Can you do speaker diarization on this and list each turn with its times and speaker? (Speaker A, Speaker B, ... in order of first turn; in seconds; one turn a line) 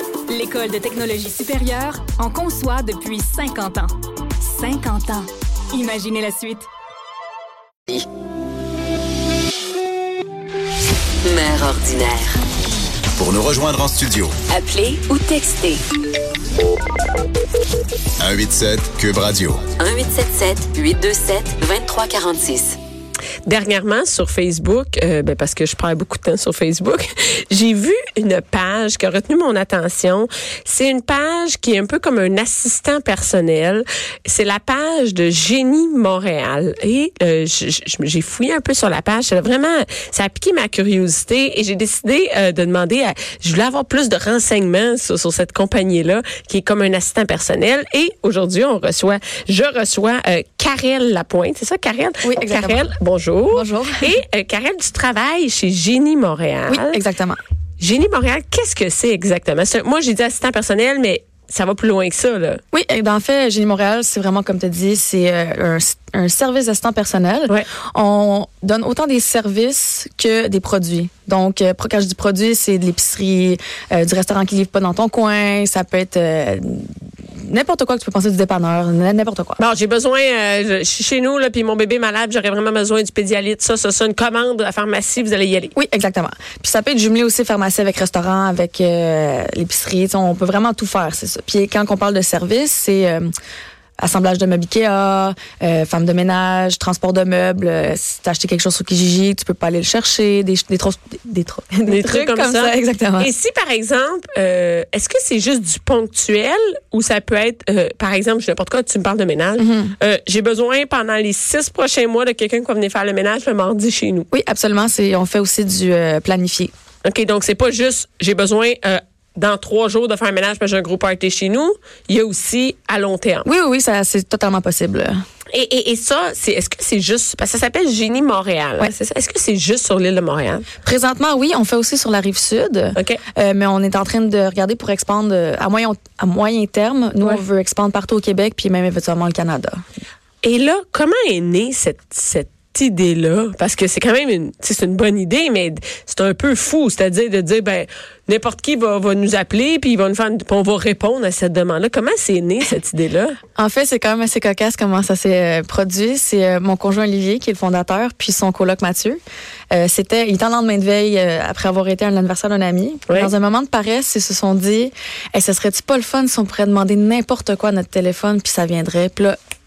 Speaker A: 0.3-6.7
Speaker B: 11.2-12.4
Speaker C: 13.2-14.3
Speaker B: 14.5-15.8
Speaker C: 18.2-19.6
Speaker B: 19.7-22.8
Speaker D: 23.5-57.0
Speaker E: 52.2-52.9
Speaker E: 53.5-54.1
Speaker E: 56.7-57.4
Speaker D: 57.8-62.6
Speaker E: 62.7-79.6
Speaker D: 79.6-85.8
Speaker E: 85.8-93.3
Speaker E: 94.0-103.3
Speaker D: 101.9-114.3
Speaker E: 109.6-110.0
Speaker E: 114.3-116.7
Speaker D: 117.0-123.5
Speaker E: 123.5-125.2
Speaker D: 125.5-130.7
Speaker E: 130.8-139.8
Speaker D: 140.4-153.4
Speaker E: 153.6-159.2
Speaker E: 159.7-169.4